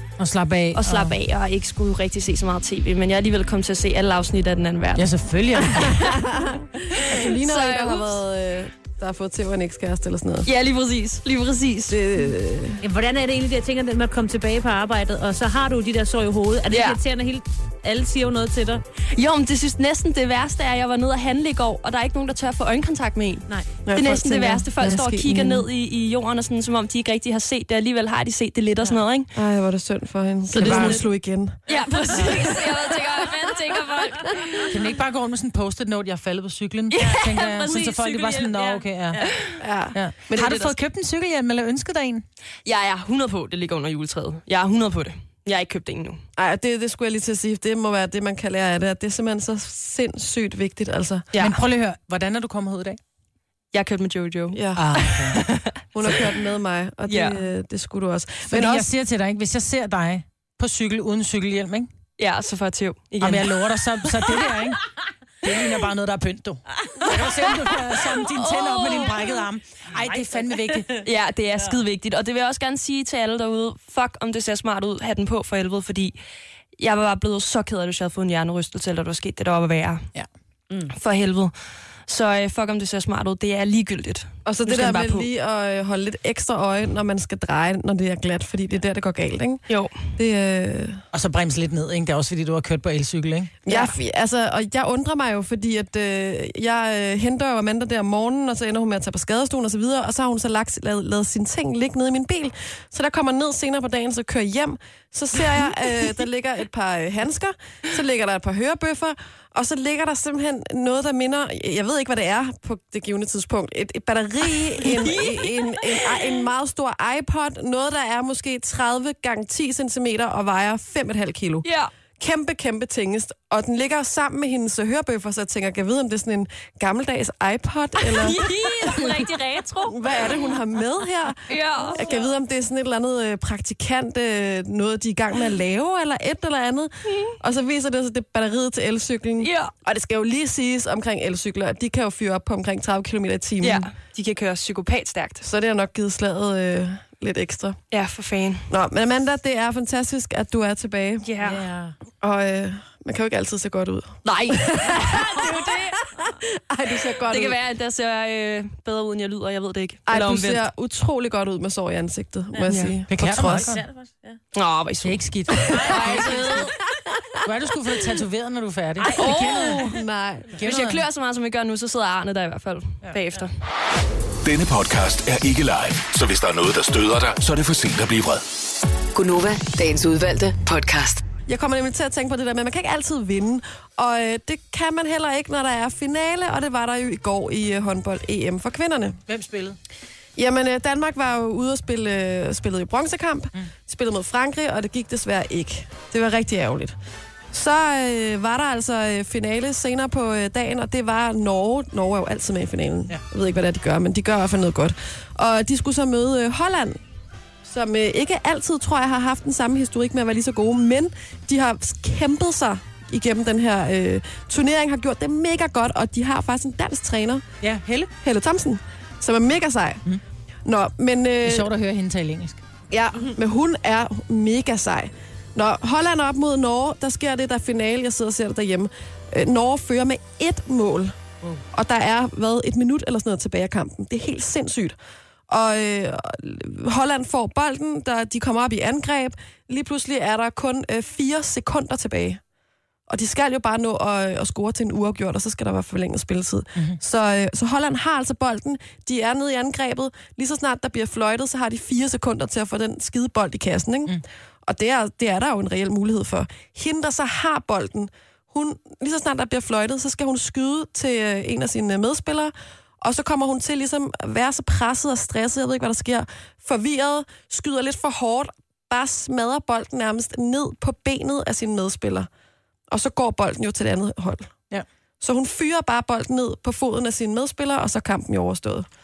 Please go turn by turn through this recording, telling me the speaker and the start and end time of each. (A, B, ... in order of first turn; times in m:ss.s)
0:00.2-0:01.2 A
0:00.7-0:05.1 B
0:05.0-0:06.2 A
0:06.0-0:10.5 C
0:06.9-0:08.2 B
0:10.5-0:12.0 B
0:11.9-0:12.8 C
0:12.8-0:18.8 D
0:16.7-0:17.0 B
0:19.1-0:29.3 B
0:23.9-0:25.6 C
0:29.4-0:31.6 C
0:30.5-0:31.0 A
0:30.6-0:31.0 D
0:31.7-0:34.7 B
0:31.7-0:33.2 D
0:32.2-0:32.6 C
0:34.7-0:39.3 A
0:36.9-0:37.6 B
0:37.0-0:39.4 D
0:39.2-0:39.5 B
0:39.6-0:40.5 C
0:39.9-0:42.2 A
0:40.3-0:40.8 B
0:42.6-0:46.2 B
0:46.4-0:51.3 C
0:51.3-0:51.6 B
0:51.4-0:53.0 A
0:53.7-0:56.2 B
0:54.5-0:55.0 C
0:54.8-0:55.5 A
0:55.9-0:58.9 C
0:57.1-0:57.5 B
0:58.5-1:01.9 A
1:02.2-1:03.8 B
1:03.2-1:04.8 A
1:05.4-1:10.9 A
1:08.2-1:09.4 B
1:10.0-1:11.8 D
1:11.0-1:16.2 B
1:16.8-1:20.1 B
1:20.9-1:21.5 B
1:22.1-1:25.3 B
1:24.5-1:29.6 C
1:29.7-1:30.0 B
1:30.2-1:31.0 C
1:31.1-1:33.5 A
1:33.7-2:01.7 C
1:33.7-1:34.0 B
1:54.8-1:56.3 B
2:01.6-2:01.9 B
2:02.2-2:09.1 C
2:08.1-2:10.6 B
2:09.9-2:23.9 C
2:11.5-2:12.2 B
2:17.1-2:17.4 B
2:19.4-2:19.7 B
2:23.6-2:25.5 B
2:25.4-2:27.8 C
2:27.9-2:28.7 B
2:28.7-2:31.2 C
2:31.2-2:31.7 B
2:31.4-2:32.0 D
2:32.2-2:37.6 C
2:34.2-2:36.0 B
2:37.2-2:40.7 B
2:40.1-2:43.8 C
2:42.7-2:42.9 B
2:43.1-2:43.8 A
2:43.4-2:44.4 D
2:44.5-2:46.7 B
2:45.0-2:46.6 A
2:45.7-2:46.7 D
2:47.4-2:49.8 A
2:49.0-2:49.9 D
2:49.1-2:49.8 B
2:49.2-2:50.5 C
2:50.6-2:51.0 A
2:50.6-2:53.5 B
2:54.4-2:58.4 E
2:59.2-3:01.2 F
3:01.5-3:09.2 C
3:09.3-3:09.8 A
3:10.4-3:17.0 C
3:17.5-3:27.0 C
3:27.6-3:37.4 C
3:37.6-3:38.1 A
3:38.2-3:40.0 C
3:40.6-3:41.7 C
3:41.4-3:42.6 A
3:42.9-3:51.2 C
3:51.7-3:55.0 C
3:55.5-4:02.4 C
4:03.1-4:32.3 C
4:32.9-4:34.5 C
4:35.2-4:38.9 C